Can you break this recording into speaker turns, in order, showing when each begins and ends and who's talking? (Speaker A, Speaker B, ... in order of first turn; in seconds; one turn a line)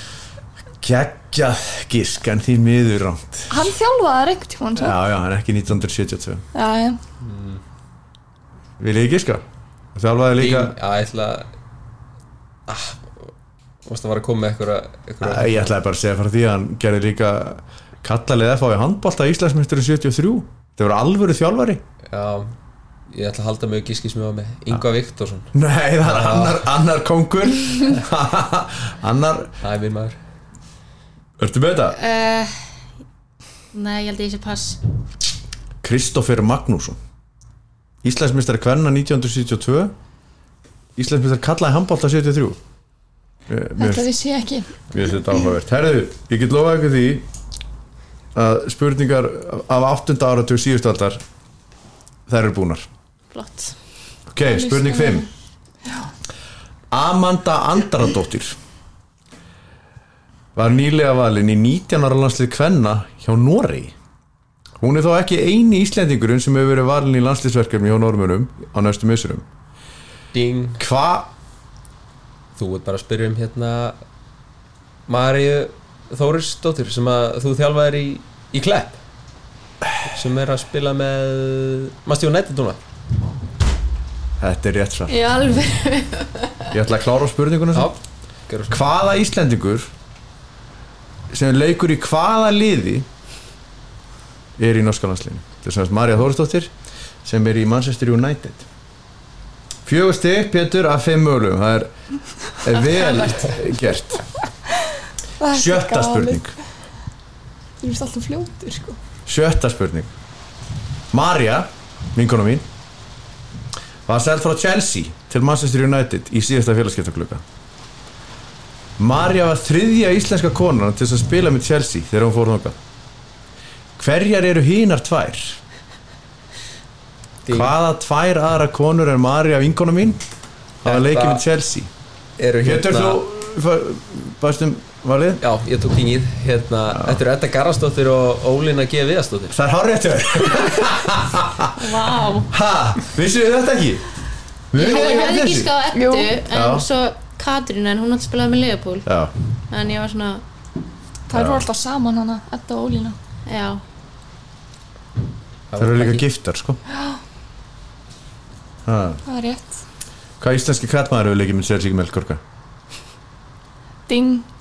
Speaker A: 0.8-3.7
Speaker B: 3.5-5.0
Speaker A: 4.8-6.4
Speaker B: 6.5-7.0
Speaker C: 7.2-7.6
Speaker A: 8.8-9.4
Speaker A: 9.9-10.8
Speaker C: 10.4-11.5
Speaker C: 12.7-13.3
Speaker C: 13.8-15.7
Speaker A: 15.2-21.8
Speaker C: 22.1-22.5
Speaker C: 23.1-26.6
Speaker A: 25.5-29.5
Speaker C: 29.6-30.2
Speaker A: 31.4-32.0
Speaker D: 31.9-32.6
Speaker D: 33.7-34.8
Speaker A: 35.8-37.0
Speaker A: 38.0-39.9
Speaker A: 41.0-42.6
Speaker A: 43.5-44.1
Speaker B: 43.8-44.8
Speaker A: 44.9-47.3
Speaker A: 48.3-51.2
Speaker A: 52.3-52.9
Speaker D: 53.3-53.8
Speaker A: 54.3-55.3
Speaker B: 54.4-55.3
Speaker A: 56.9-58.6
Speaker A: 60.5-63.9
Speaker A: 64.8-69.5
Speaker C: 70.3-70.8
Speaker A: 70.8-71.3
Speaker C: 72.6-74.0
Speaker C: 75.1-79.0
Speaker C: 80.0-82.8
Speaker A: 84.4-85.2
Speaker D: 85.1-86.8
Speaker A: 86.7-87.9
Speaker C: 87.7-88.8
Speaker A: 88.7-89.9
Speaker A: 91.3-93.1
Speaker A: 94.6-96.7
Speaker A: 97.2-98.7
Speaker A: 99.8-101.9
Speaker A: 102.6-104.2
Speaker D: 102.9-103.3
Speaker C: 102.9-103.6
Speaker B: 105.4-106.5
Speaker A: 105.5-106.5
Speaker B: 107.8-109.0
Speaker A: 109.2-110.1
Speaker A: 111.1-112.7
Speaker A: 114.1-117.4
Speaker A: 119.0-122.8
Speaker A: 124.0-125.6
Speaker C: 127.5-127.7
Speaker A: 127.5-130.2
Speaker A: 130.8-131.9
Speaker C: 130.8-131.4
Speaker C: 132.4-133.2
Speaker A: 132.6-135.4
Speaker C: 135.4-139.6
Speaker A: 136.9-137.2
Speaker A: 139.5-144.0
Speaker D: 141.8-142.5
Speaker A: 144.7-145.7
Speaker D: 144.8-149.1
Speaker B: 145.9-146.4
Speaker A: 146.5-146.9
Speaker A: 149.1-149.3
Speaker D: 149.7-150.4
Speaker B: 151.3-153.1
Speaker A: 151.3-151.7
Speaker D: 153.5-153.8
Speaker C: 155.7-156.2
Speaker A: 155.8-156.8
Speaker B: 156.9-157.2
Speaker A: 158.8-159.2
Speaker B: 159.2-159.8
Speaker A: 160.4-162.4
Speaker B: 164.1-164.5